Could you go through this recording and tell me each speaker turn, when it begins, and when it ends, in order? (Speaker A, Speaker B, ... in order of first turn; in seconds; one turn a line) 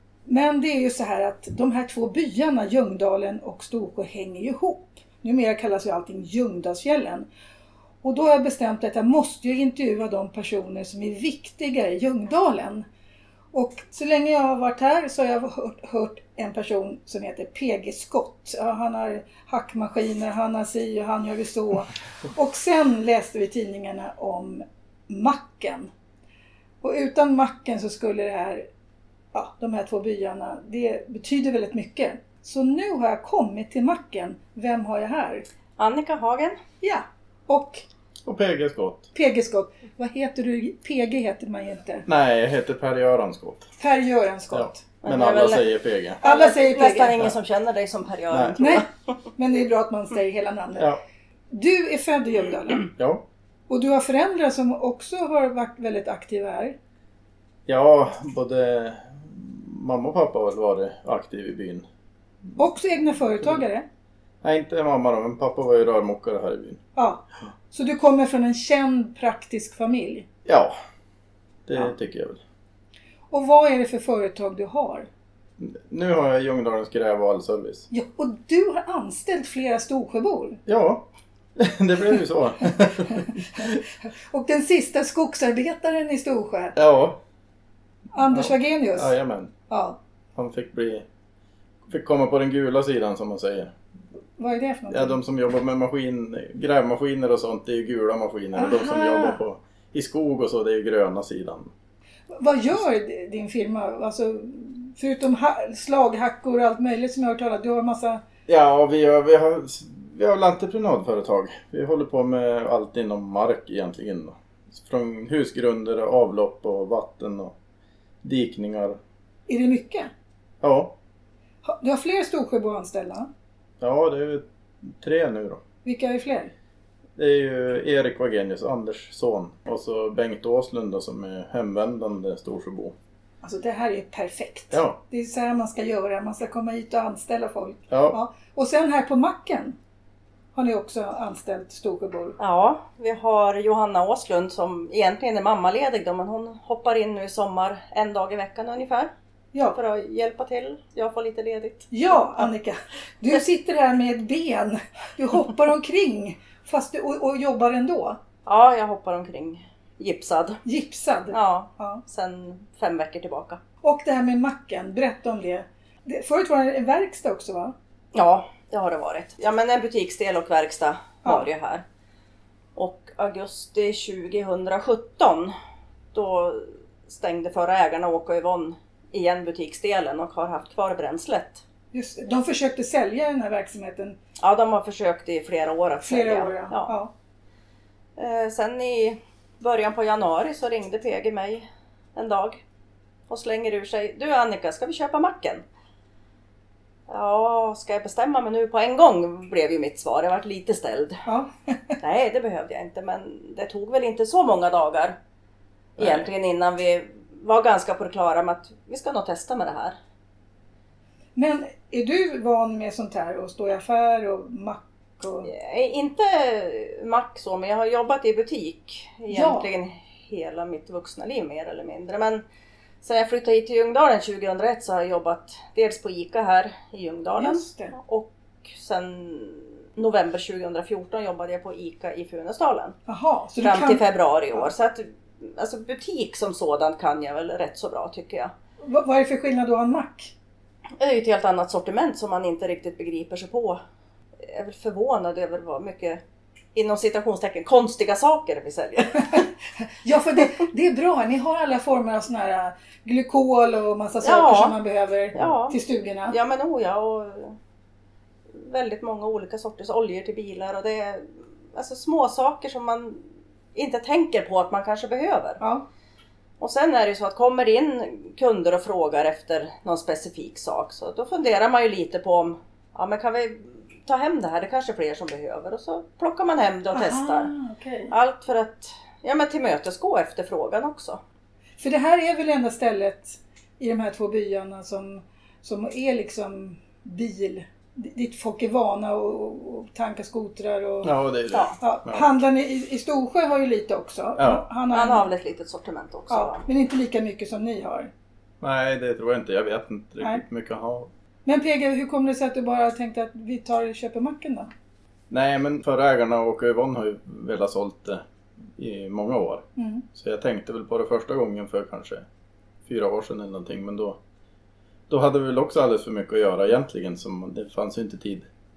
Speaker A: 0.3-7.3
Speaker A: 8.0-12.9
Speaker A: 13.5-25.9
Speaker A: 26.8-28.7
Speaker A: 29.3-35.5
Speaker B: 35.8-36.6
Speaker A: 36.8-37.8
Speaker C: 38.3-39.1
Speaker A: 39.1-42.1
Speaker C: 42.1-43.7
Speaker A: 43.8-44.8
Speaker C: 44.5-46.2
Speaker B: 45.0-45.7
Speaker A: 46.2-47.2
Speaker B: 46.2-48.9
Speaker C: 48.3-48.6
Speaker A: 48.6-48.9
Speaker A: 49.4-50.9
Speaker C: 50.8-51.0
Speaker A: 51.5-52.9
Speaker C: 53.0-53.2
Speaker A: 53.7-56.8
Speaker C: 57.7-61.9
Speaker A: 62.6-63.9
Speaker C: 64.4-66.8
Speaker A: 67.0-70.3
Speaker C: 70.5-70.8
Speaker C: 71.7-72.4
Speaker A: 73.3-75.1
Speaker C: 75.6-77.9
Speaker A: 77.9-80.6
Speaker C: 80.7-83.8
Speaker A: 83.1-86.8
Speaker C: 86.8-87.2
Speaker A: 88.1-89.1
Speaker C: 88.3-89.5
Speaker A: 89.7-90.0
Speaker C: 90.4-91.1
Speaker C: 91.9-93.7
Speaker A: 94.4-95.2
Speaker C: 94.9-101.7
Speaker A: 98.5-99.4
Speaker A: 102.3-108.2
Speaker C: 108.5-117.5
Speaker C: 118.2-119.0
Speaker A: 119.5-120.1
Speaker C: 120.6-121.0
Speaker A: 121.6-123.3
Speaker C: 123.8-125.6
Speaker A: 125.8-126.5
Speaker C: 127.2-132.9
Speaker A: 133.4-139.8
Speaker C: 134.7-135.0
Speaker C: 137.9-138.2
Speaker A: 140.6-142.4
Speaker B: 142.4-149.1
Speaker B: 149.7-151.9
Speaker A: 151.9-158.2
Speaker B: 158.5-160.6
Speaker A: 160.7-162.0
Speaker B: 161.3-163.6
Speaker A: 163.8-167.8
Speaker B: 168.1-171.8
Speaker B: 172.8-175.5
Speaker B: 176.1-181.6
Speaker A: 181.9-184.2
Speaker B: 184.4-186.9
Speaker A: 186.0-187.1
Speaker B: 188.2-192.6
Speaker B: 193.3-195.6
Speaker B: 197.1-201.2
Speaker A: 201.3-202.0
Speaker B: 202.0-205.2
Speaker C: 206.0-206.3
Speaker B: 206.0-210.0
Speaker A: 211.4-215.5
Speaker B: 215.4-222.4
Speaker A: 219.3-219.7
Speaker B: 223.0-233.0
Speaker A: 227.4-227.9
Speaker A: 233.1-234.0
Speaker B: 233.6-238.5
Speaker A: 238.8-240.3
Speaker B: 241.0-243.8
Speaker B: 244.4-246.2
Speaker B: 246.8-249.5
Speaker A: 250.0-256.4
Speaker B: 254.2-254.8
Speaker B: 255.3-255.8
Speaker B: 256.3-257.6
Speaker B: 258.5-265.6
Speaker B: 266.6-277.5
Speaker A: 276.9-278.1
Speaker B: 278.1-281.2
Speaker A: 281.8-291.1
Speaker C: 291.0-292.3
Speaker A: 291.8-295.3
Speaker C: 294.4-294.6
Speaker B: 294.9-296.6
Speaker A: 296.3-298.1
Speaker C: 298.6-301.1
Speaker A: 301.4-304.7
Speaker C: 305.3-308.2
Speaker C: 308.8-312.3
Speaker A: 309.8-310.1
Speaker C: 312.9-314.2
Speaker C: 315.1-318.5